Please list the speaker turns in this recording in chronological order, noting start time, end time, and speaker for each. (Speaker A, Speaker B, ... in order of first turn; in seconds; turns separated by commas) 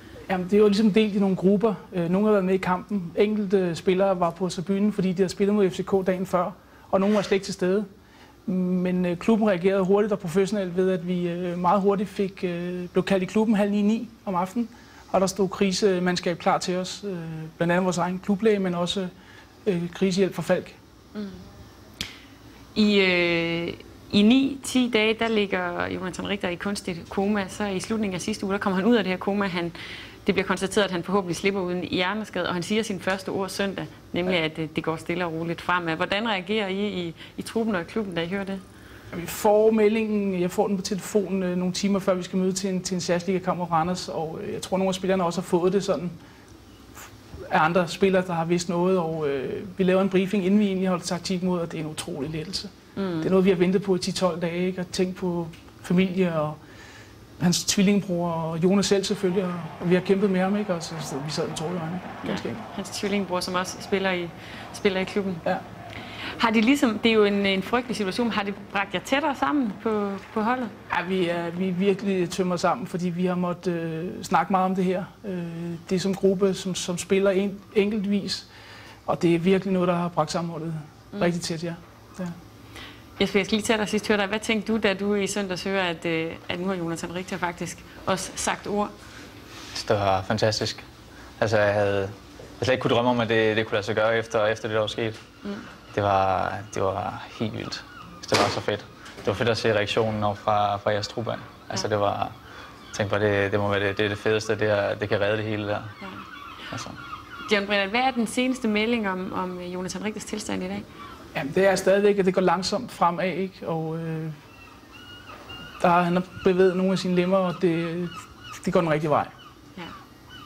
Speaker A: 0.3-7.9, Speaker A: 8.4-19.1, Speaker A: 19.6-20.8, Speaker B: 21.1-21.4, Speaker B: 22.7-38.6, Speaker A: 39.1-46.1, Speaker A: 47.5-56.6, Speaker B: 53.0-53.3, Speaker A: 57.4-62.6, Speaker B: 62.2-65.4, Speaker B: 66.4-70.7, Speaker A: 70.9-78.5, Speaker A: 79.1-82.3, Speaker B: 83.2-88.9, Speaker C: 89.7-90.8, Speaker C: 91.4-95.2, Speaker C: 95.9-102.3, Speaker C: 102.9-105.9, Speaker C: 106.7-107.0, Speaker B: 107.5-110.8, Speaker A: 111.3-114.3, Speaker A: 115.8-119.3